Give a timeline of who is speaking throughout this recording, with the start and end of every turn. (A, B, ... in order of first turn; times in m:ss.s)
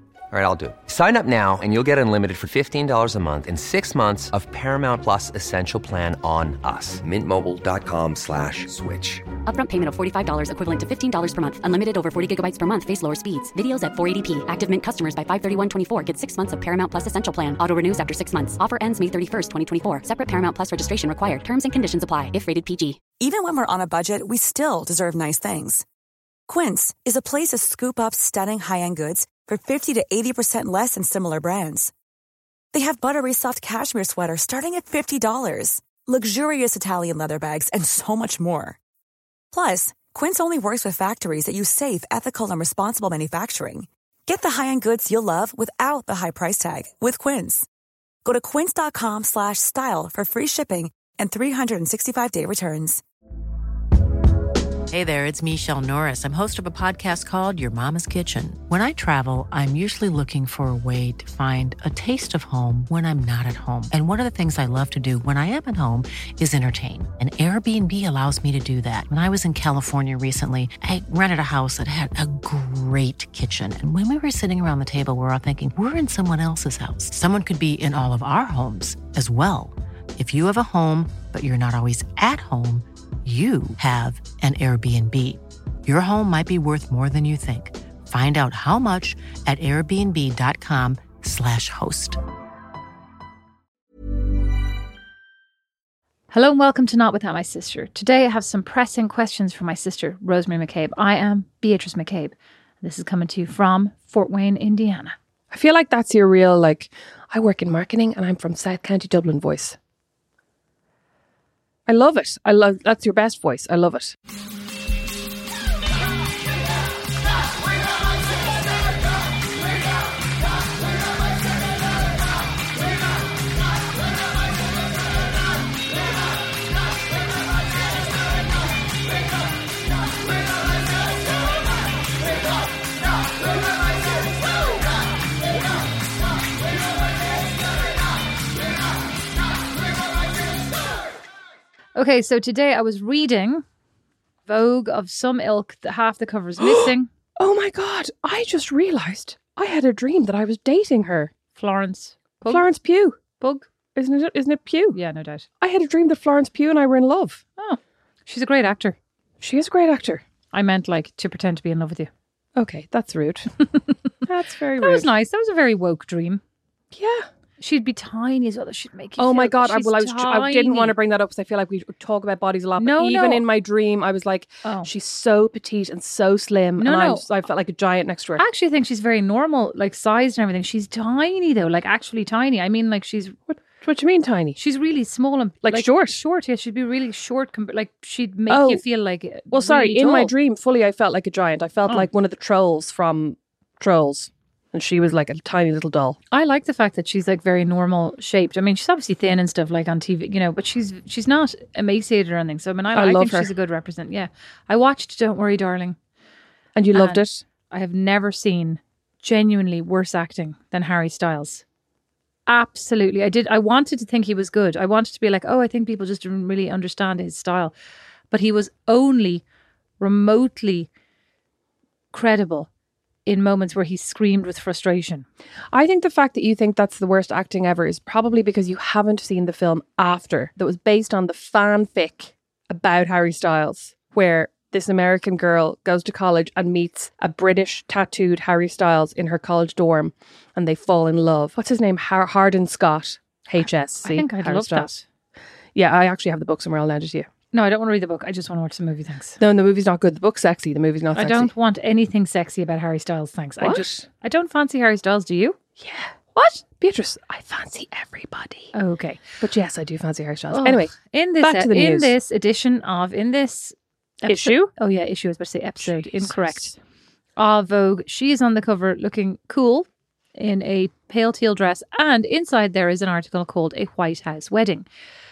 0:00.3-0:09.2 A
0:09.5-0:23.0 B
0:23.2-0:25.9 C
0:26.5-0:31.9 C
0:32.7-0:38.8 C
0:39.5-0:47.7 C
0:48.2-0:53.0 C
0:54.9-1:32.2 D
1:36.3-1:45.2 E
1:45.5-1:49.8 F
1:51.9-1:54.2 F
2:22.0-2:23.6 E
2:24.5-2:27.1 E
2:27.4-2:31.3 F
2:31.6-2:32.7 E
2:32.5-2:33.2 F
2:33.4-2:33.7 E
2:34.0-2:35.0 F
2:34.9-2:35.5 E
2:35.6-2:37.4 F
2:37.6-2:39.0 E
2:39.4-2:40.2 F
2:40.5-2:42.1 E
2:42.6-2:43.5 F
2:44.3-2:45.1 F
2:44.8-2:46.4 E
2:46.9-2:47.3 F
2:47.6-2:51.0 E
2:49.2-2:58.4 F
2:52.8-2:53.4 E
2:56.8-2:57.4 E
2:58.4-3:03.4 E
3:03.5-3:04.6 F
3:04.6-3:10.3 E
3:05.6-3:06.2 F
3:08.5-3:08.8 F
3:09.5-3:16.2 F
3:16.3-3:26.0 E
3:23.0-3:23.5 F
3:26.8-3:27.4 F
3:26.9-3:31.6 E
3:32.5-3:37.7 E
3:38.3-3:39.4 E
3:40.0-3:40.9 E
3:42.1-3:42.7 E
3:43.3-3:45.3 E
3:45.7-4:04.9 F
4:04.0-4:05.0 E
4:05.8-4:07.3 F
4:07.5-4:09.4 E
4:09.4-4:11.5 F
4:11.1-4:15.6 E
4:13.6-4:13.9 F
4:15.8-4:18.7 F
4:18.7-4:19.2 E
4:19.4-4:22.1 F
4:20.5-4:26.7 E
4:24.3-4:24.6 F
4:25.8-4:26.7 F
4:27.4-4:34.9 E